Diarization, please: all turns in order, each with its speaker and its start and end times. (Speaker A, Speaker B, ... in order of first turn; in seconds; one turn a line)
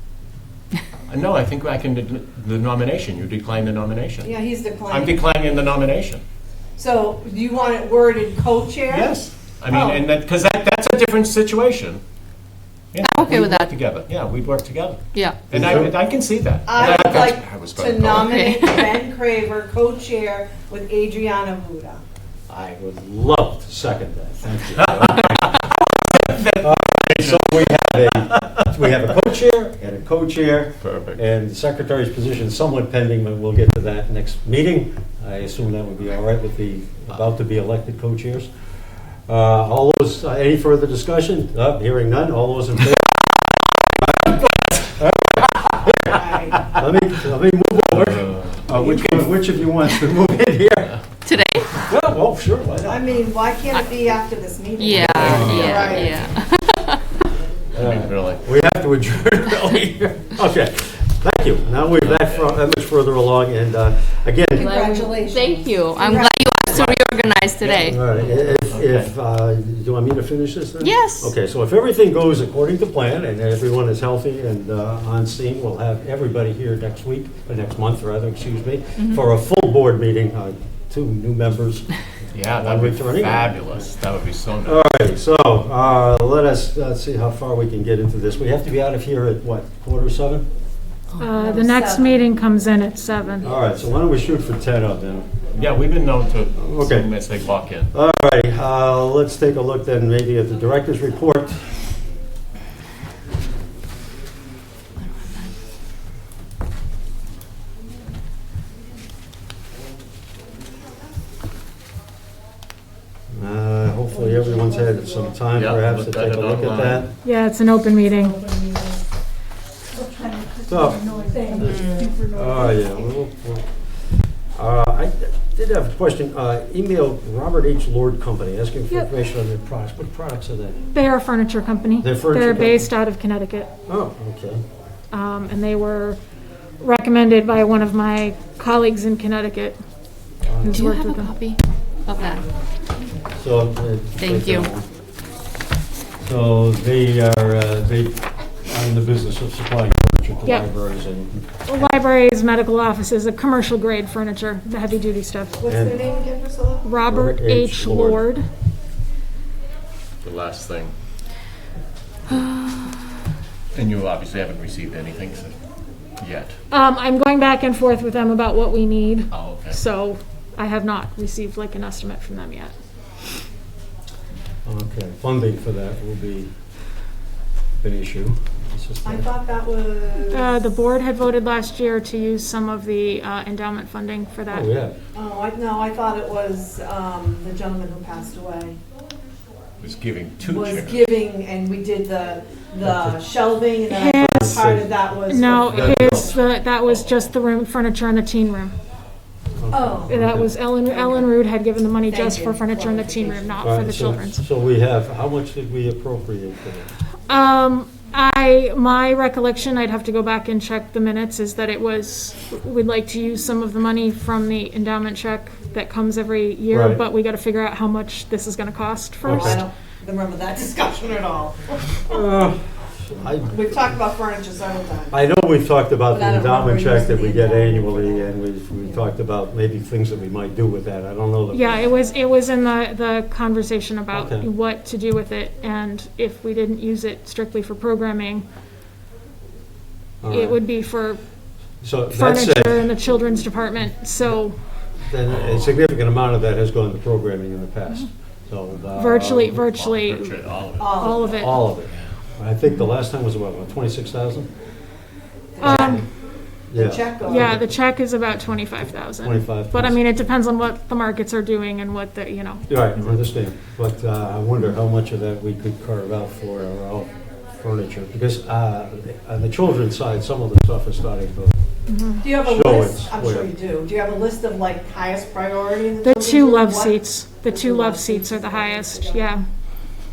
Speaker A: 1.1-4.3
Speaker B: 4.2-5.3
Speaker A: 4.9-6.2
Speaker B: 6.8-9.1
Speaker A: 8.9-12.0
Speaker B: 9.7-10.0
Speaker A: 12.9-18.7
Speaker C: 13.0-13.7
Speaker C: 15.1-15.5
Speaker D: 15.5-15.9
Speaker B: 16.6-22.0
Speaker D: 22.5-25.6
Speaker A: 24.7-28.6
Speaker D: 26.5-38.5
Speaker A: 30.8-31.2
Speaker D: 39.3-43.2
Speaker D: 44.0-46.2
Speaker B: 46.0-46.6
Speaker D: 46.7-51.0
Speaker A: 47.9-49.5
Speaker C: 51.2-51.8
Speaker D: 51.9-53.1
Speaker B: 52.8-56.3
Speaker C: 54.8-57.0
Speaker A: 55.1-55.9
Speaker D: 55.1-56.0
Speaker D: 57.7-64.7
Speaker A: 57.8-58.4
Speaker A: 62.0-62.6
Speaker B: 64.5-67.0
Speaker C: 64.5-68.0
Speaker A: 67.6-69.1
Speaker D: 67.8-81.9
Speaker C: 70.8-71.3
Speaker C: 79.0-79.2
Speaker A: 82.3-84.9
Speaker D: 82.5-83.9
Speaker D: 84.6-90.5
Speaker E: 91.2-93.5
Speaker B: 91.4-92.2
Speaker D: 93.4-95.2
Speaker B: 93.4-93.9
Speaker A: 95.5-97.9
Speaker D: 96.6-97.1
Speaker D: 97.9-101.7
Speaker D: 113.3-117.1
Speaker B: 114.1-115.2
Speaker A: 115.5-117.1
Speaker E: 117.2-118.4
Speaker B: 118.1-119.0
Speaker D: 120.7-123.7
Speaker E: 121.1-122.4
Speaker B: 121.2-122.7
Speaker C: 121.6-122.0
Speaker D: 124.5-130.8
Speaker E: 130.9-133.7
Speaker D: 132.0-132.9
Speaker D: 133.9-134.6
Speaker E: 135.1-136.2
Speaker E: 136.8-139.8
Speaker D: 140.4-140.9
Speaker E: 140.6-141.3
Speaker C: 140.7-142.4
Speaker D: 143.4-144.8
Speaker C: 144.2-144.7
Speaker D: 146.2-151.9
Speaker E: 151.7-155.6
Speaker B: 155.6-156.9
Speaker D: 155.7-156.0
Speaker E: 156.8-158.4
Speaker D: 157.1-158.2
Speaker A: 160.2-160.9
Speaker A: 163.7-165.5
Speaker A: 166.2-166.6
Speaker E: 166.7-172.7
Speaker A: 169.3-169.8
Speaker D: 174.6-176.5
Speaker D: 177.8-179.3
Speaker B: 179.0-180.5
Speaker E: 180.3-184.8
Speaker D: 184.5-184.9
Speaker B: 185.1-188.8
Speaker A: 189.8-191.1
Speaker B: 190.4-196.4
Speaker D: 192.8-193.2
Speaker E: 193.9-194.6
Speaker D: 194.2-195.0
Speaker E: 195.3-198.7
Speaker D: 195.6-196.3
Speaker D: 199.6-200.5
Speaker B: 199.7-201.3
Speaker E: 200.1-204.4
Speaker B: 202.1-203.7
Speaker D: 203.6-206.9
Speaker E: 207.3-219.6
Speaker D: 216.7-217.0
Speaker D: 219.2-219.6
Speaker B: 219.2-222.2
Speaker D: 222.1-223.6
Speaker B: 223.5-225.2
Speaker D: 225.1-231.7
Speaker B: 226.1-228.3
Speaker E: 231.5-238.4
Speaker D: 234.1-234.5
Speaker D: 240.2-240.6
Speaker E: 240.2-241.2
Speaker D: 241.8-242.8
Speaker E: 242.1-244.6
Speaker D: 245.1-249.6
Speaker A: 245.3-245.7
Speaker E: 248.9-251.7
Speaker A: 249.6-250.9
Speaker B: 250.8-251.4
Speaker D: 251.2-254.5
Speaker B: 255.6-256.1
Speaker E: 255.6-256.0
Speaker D: 255.6-256.0
Speaker D: 256.7-257.6
Speaker B: 256.7-257.6
Speaker E: 257.2-263.2
Speaker D: 259.2-260.0
Speaker D: 262.7-271.6
Speaker E: 271.9-272.3
Speaker B: 272.2-279.3
Speaker D: 272.3-273.5
Speaker E: 276.0-279.4